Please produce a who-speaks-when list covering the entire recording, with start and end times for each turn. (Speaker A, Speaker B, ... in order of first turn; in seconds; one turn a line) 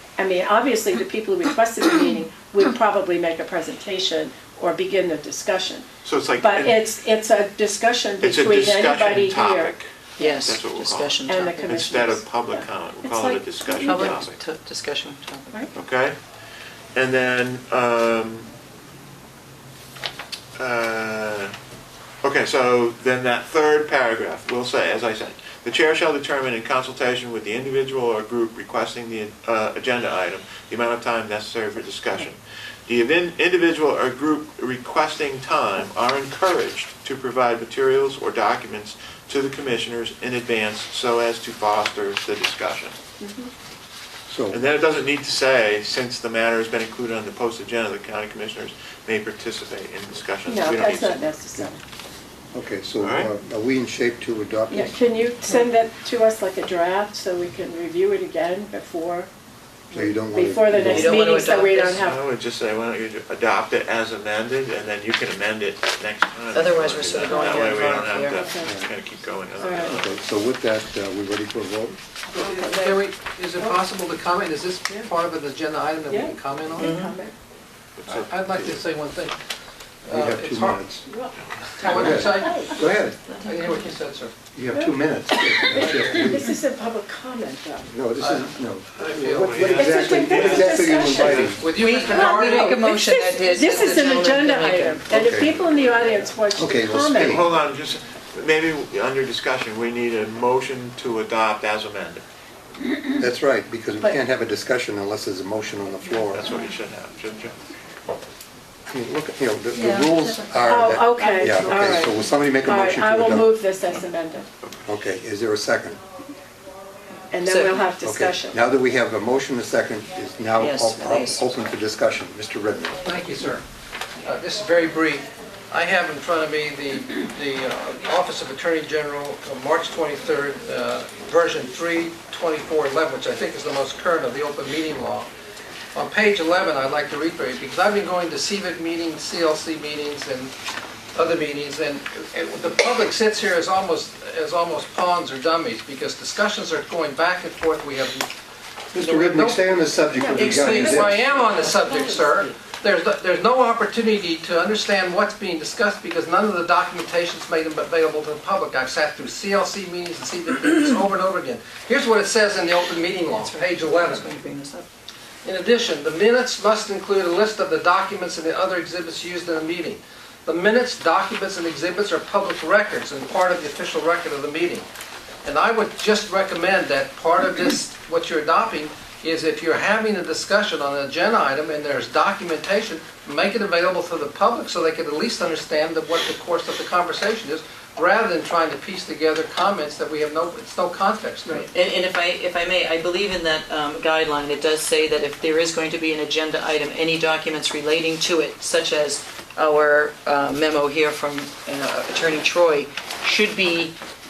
Speaker A: 0.2-5.9
Speaker B: 6.0-6.8
Speaker A: 6.4-10.4
Speaker B: 8.2-9.9
Speaker C: 10.2-12.1
Speaker B: 10.4-14.4
Speaker A: 11.3-14.2
Speaker C: 13.8-15.7
Speaker B: 15.7-16.2
Speaker B: 16.9-18.5
Speaker B: 20.6-21.5
Speaker B: 22.2-43.0
Speaker A: 43.2-43.5
Speaker D: 44.3-44.6
Speaker B: 44.5-51.3
Speaker A: 50.5-51.8
Speaker D: 52.5-55.1
Speaker B: 53.0-53.3
Speaker A: 54.7-59.3
Speaker A: 59.9-62.2
Speaker D: 59.9-61.2
Speaker C: 60.9-62.0
Speaker B: 61.9-70.2
Speaker C: 66.5-68.5
Speaker A: 68.3-68.7
Speaker D: 68.6-68.9
Speaker A: 69.6-70.0
Speaker D: 69.8-72.0
Speaker A: 72.3-73.1
Speaker E: 72.3-77.0
Speaker A: 76.1-77.4
Speaker C: 76.8-77.2
Speaker B: 78.0-78.8
Speaker E: 78.1-79.4
Speaker E: 80.0-80.9
Speaker D: 80.1-81.1
Speaker A: 81.0-82.8
Speaker B: 81.3-82.2
Speaker E: 81.8-84.3
Speaker D: 81.9-83.2
Speaker C: 83.3-83.8
Speaker D: 84.5-86.5
Speaker A: 84.7-87.9
Speaker D: 87.9-91.7
Speaker E: 88.2-92.8
Speaker B: 89.2-91.5
Speaker A: 89.7-97.4
Speaker C: 91.7-95.0
Speaker E: 93.7-94.1
Speaker D: 95.1-95.7
Speaker D: 96.5-97.5
Speaker B: 97.1-102.2
Speaker D: 103.2-106.4
Speaker B: 106.3-107.5
Speaker D: 108.9-113.6
Speaker C: 109.7-110.5
Speaker A: 110.7-114.5
Speaker C: 111.2-112.1
Speaker B: 114.6-114.9
Speaker D: 114.9-116.0
Speaker A: 117.3-118.6
Speaker C: 117.5-117.8
Speaker D: 118.0-123.1
Speaker C: 120.6-121.5
Speaker E: 123.0-123.6
Speaker E: 124.2-135.3
Speaker E: 135.9-140.5
Speaker E: 141.1-148.3
Speaker D: 148.9-151.2
Speaker E: 148.9-164.3
Speaker A: 150.2-150.6
Speaker C: 150.3-152.6
Speaker C: 163.4-164.9
Speaker E: 165.4-174.9
Speaker E: 175.4-191.7
Speaker C: 191.5-204.0